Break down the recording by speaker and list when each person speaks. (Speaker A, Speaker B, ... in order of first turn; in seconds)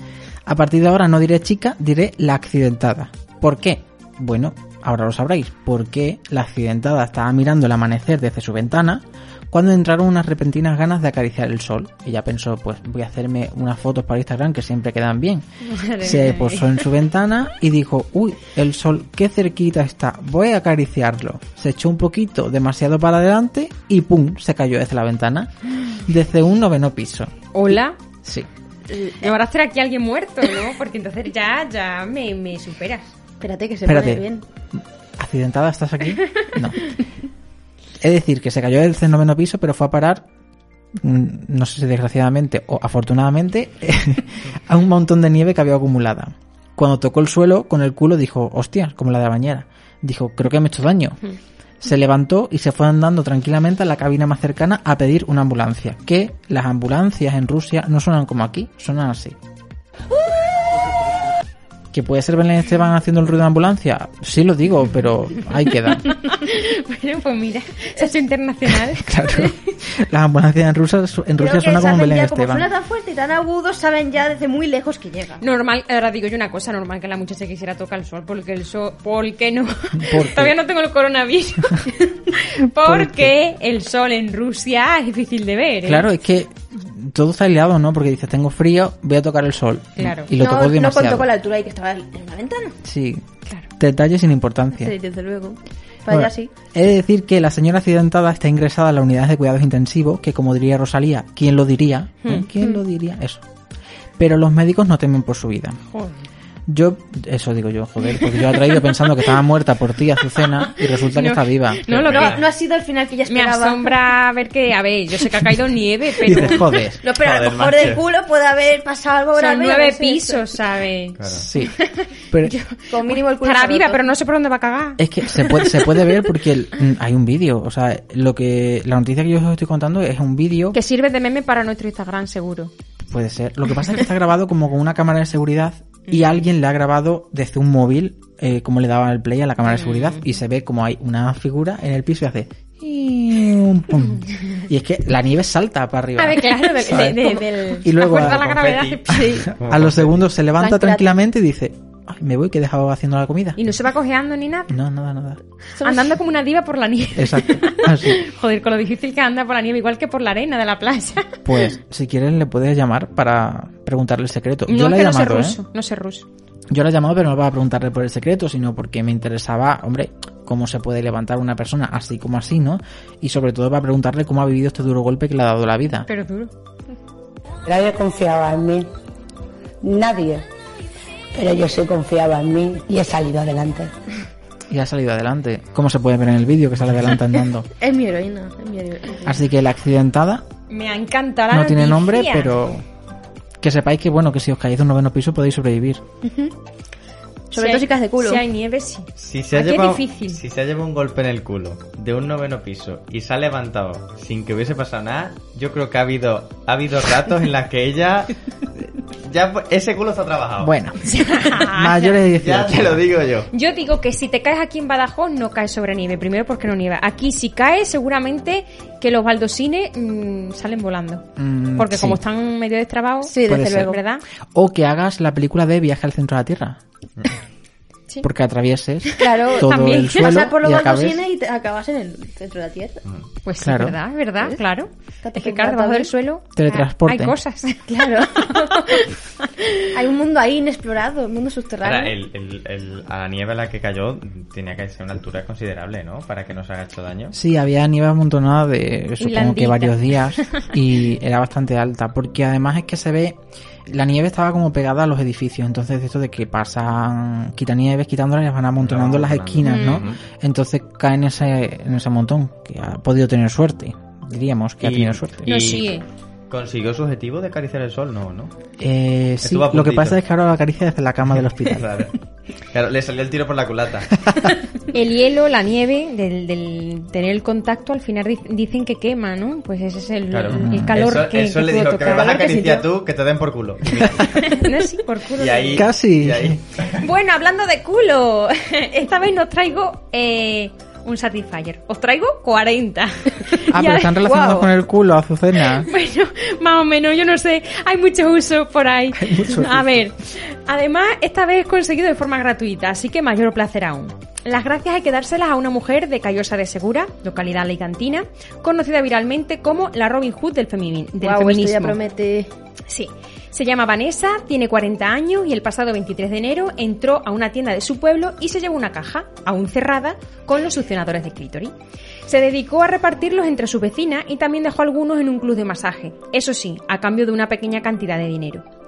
Speaker A: 0.5-15.4, 16.0-25.5, 26.0-27.3, 33.9-34.2, 34.7-36.8, 38.0-40.2, 41.0-51.2, 51.8-59.4, 61.9-66.1, 68.9-72.7, 80.0-80.5, 82.8-83.3, 85.8-91.3, 92.8-93.2, 93.8-94.9, 96.1-103.4, 104.2-105.8, 106.7-111.8, 116.2-117.0, 121.3-121.7, 125.0-130.8, 133.1-148.6, 149.6-153.6, 154.7-155.4, 157.2-158.2, 161.4-165.6, 166.7-176.1, 184.7-187.7, 189.2-190.4, 191.5-192.8, 193.6-196.0, 210.6-213.0, 221.4-222.2, 223.4-223.9, 224.5-226.8, 228.2-231.2, 233.6-234.0, 236.5-237.3, 247.3-253.4, 253.9-265.5, 268.8-271.8, 280.5-281.0, 284.1-284.4, 285.8-286.6, 293.7-295.9, 299.2-299.9
Speaker B: 15.7-16.8, 27.5-28.0, 29.2-33.1, 66.1-69.5, 75.4-86.1, 90.0-90.3, 111.1-112.4, 113.3-116.8, 119.3-126.1, 130.7-132.7, 139.6-140.2, 146.2-149.4, 153.6-154.7, 155.8-161.3, 164.7-166.2, 176.1-176.5, 190.7-192.5, 197.6-200.4, 211.0-212.2, 213.5-224.2, 229.2-230.4, 233.4-239.5, 249.2-250.6, 259.6-260.0, 265.4-266.0, 274.9-282.4, 284.4-285.9, 286.9-294.7, 295.6-312.0, 312.9-321.7, 322.3-328.6
Speaker C: 28.9-29.3, 33.4-34.4, 71.4-75.4, 90.3-92.7, 94.7-96.5, 112.1-114.0, 117.0-120.6, 122.9-124.1, 147.0-147.4, 150.6-151.1, 155.8-156.2, 187.7-189.4, 196.2-196.5, 197.5-198.4, 223.2-224.0, 229.2-233.0, 235.2-236.1, 237.9-238.9, 239.9-242.2, 282.0-282.9, 311.2-312.5
Speaker D: 111.9-112.4, 117.1-118.0, 121.2-121.4, 148.1-150.2, 199.2-208.3, 209.2-210.7, 212.4-213.5, 241.8-247.3, 258.8-260.2, 264.8-266.0, 266.5-268.5, 269.4-270.2, 271.6-272.1, 272.7-274.4, 280.3-284.6, 285.4-287.0
Speaker E: 177.7-178.9, 179.8-180.4, 181.3-183.9